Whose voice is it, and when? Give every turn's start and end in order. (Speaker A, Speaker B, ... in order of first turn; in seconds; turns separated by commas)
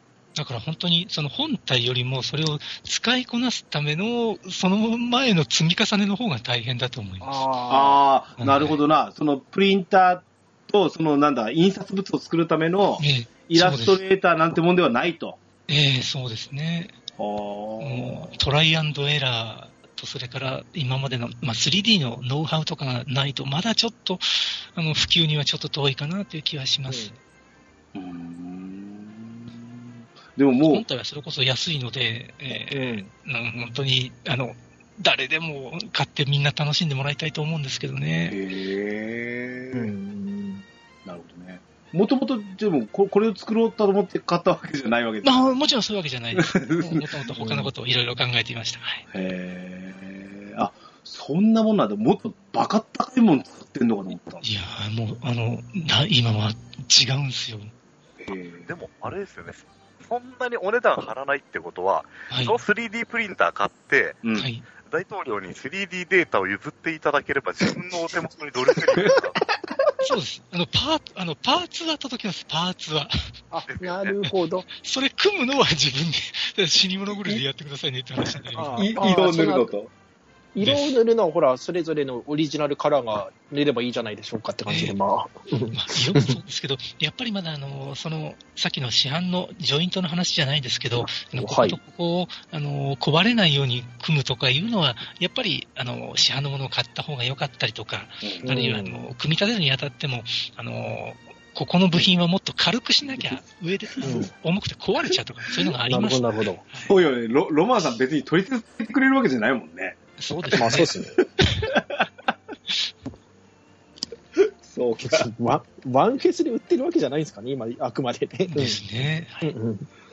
Speaker A: 0.3-7.4, Speaker B: 7.2-8.0, Speaker C: 7.7-15.4, Speaker A: 8.4-8.8, Speaker A: 13.0-14.0, Speaker A: 15.7-16.9, Speaker C: 17.2-18.4, Speaker A: 17.8-27.2, Speaker B: 26.9-27.1, Speaker C: 27.9-30.8, Speaker A: 30.7-38.4, Speaker B: 32.5-33.1, Speaker C: 38.3-39.9, Speaker B: 39.7-40.6, Speaker C: 41.0-45.5, Speaker A: 45.2-49.0, Speaker C: 46.4-47.0, Speaker B: 47.3-47.7, Speaker C: 49.1-54.4, Speaker A: 54.4-57.7, Speaker C: 58.2-58.7, Speaker D: 58.6-64.2, Speaker A: 62.3-62.6, Speaker C: 64.2-64.5, Speaker A: 64.4-64.6, Speaker D: 64.8-69.4, Speaker A: 70.0-73.1, Speaker B: 73.5-74.7, Speaker D: 73.7-74.1, Speaker A: 74.8-78.8, Speaker B: 78.5-79.7, Speaker C: 78.8-79.9, Speaker B: 80.5-86.4, Speaker A: 80.6-81.0, Speaker A: 84.7-85.0, Speaker A: 85.7-106.9, Speaker B: 91.0-91.8, Speaker C: 98.2-98.5, Speaker B: 98.4-99.0, Speaker B: 104.0-104.3, Speaker B: 105.9-106.6, Speaker C: 106.8-110.0, Speaker A: 110.2-111.7, Speaker B: 110.3-111.2, Speaker C: 110.5-110.8, Speaker C: 111.6-112.0, Speaker C: 114.4-115.3, Speaker B: 115.0-118.8, Speaker A: 118.5-119.5, Speaker B: 119.4-119.9